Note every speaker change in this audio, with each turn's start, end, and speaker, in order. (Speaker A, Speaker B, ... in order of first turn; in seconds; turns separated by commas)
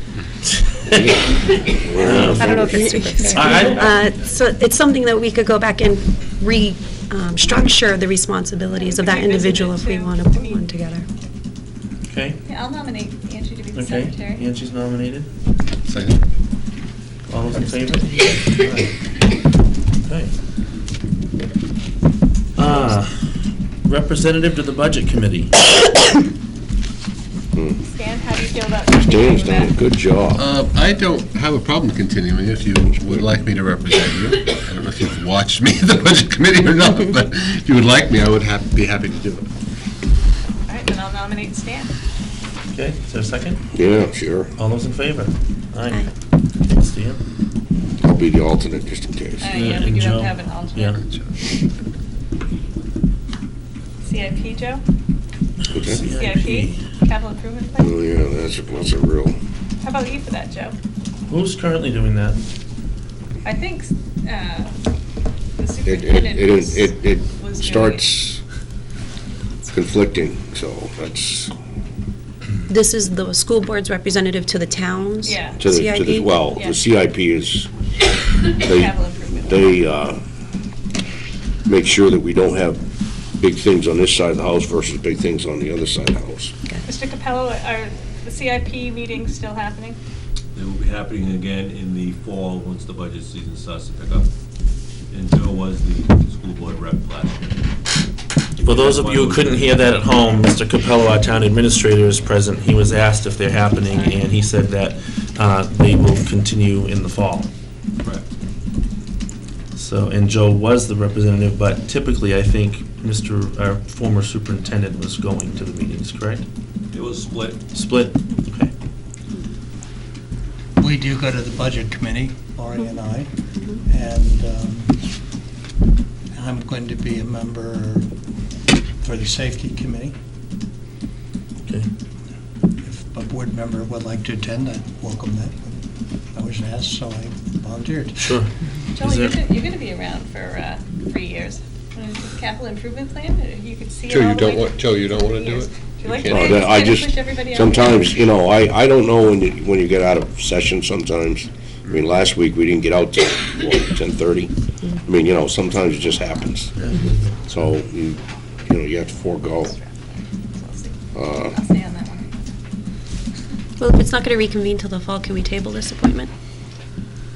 Speaker A: 0.5-1.3, Speaker B: 0.9-3.2, Speaker A: 1.9-2.8, Speaker C: 2.1-11.1, Speaker A: 3.3-4.0, Speaker D: 8.7-10.6, Speaker A: 12.1-12.4, Speaker D: 12.4-14.4, Speaker A: 13.7-15.3, Speaker E: 15.8-16.2, Speaker A: 17.3-18.9, Speaker A: 20.0-20.3, Speaker A: 22.5-23.3, Speaker A: 23.8-25.6, Speaker B: 27.5-27.8, Speaker D: 27.8-29.8, Speaker B: 28.9-30.4, Speaker E: 30.4-39.5, Speaker D: 40.7-41.9, Speaker A: 42.7-43.6, Speaker B: 43.7-44.5, Speaker A: 44.6-46.1, Speaker A: 46.6-47.2, Speaker B: 48.0-49.5, Speaker D: 49.4-51.2, Speaker A: 49.5-51.0, Speaker D: 54.0-54.8, Speaker A: 55.7-56.8, Speaker B: 55.7-56.0, Speaker D: 56.1-57.9, Speaker B: 57.8-59.4, Speaker D: 59.8-60.8, Speaker A: 61.3-62.4, Speaker D: 63.4-64.8, Speaker D: 65.6-68.0, Speaker B: 65.8-68.4, Speaker B: 69.7-71.5, Speaker C: 72.7-76.4, Speaker D: 75.2-75.6, Speaker B: 75.6-77.7, Speaker D: 76.5-76.8, Speaker D: 78.4-79.8, Speaker B: 78.5-80.2, Speaker B: 81.7-82.8, Speaker B: 83.4-86.5, Speaker D: 86.8-90.0, Speaker F: 90.5-94.3, Speaker F: 95.1-97.6, Speaker F: 98.6-99.7, Speaker A: 98.6-107.5, Speaker D: 103.9-104.3, Speaker A: 109.7-116.4, Speaker F: 116.9-117.6, Speaker A: 117.7-118.7, Speaker G: 120.8-123.3, Speaker G: 123.8-124.9, Speaker G: 126.3-128.1, Speaker G: 129.0-130.2, Speaker G: 132.8-135.8, Speaker G: 136.3-138.3, Speaker A: 138.2-139.3, Speaker D: 139.0-148.1, Speaker E: 144.1-146.6, Speaker B: 146.2-154.5, Speaker B: 155.0-156.7, Speaker A: 156.8-157.2, Speaker B: 157.4-159.7, Speaker D: 159.6-162.3, Speaker B: 161.1-161.5, Speaker C: 163.8-166.3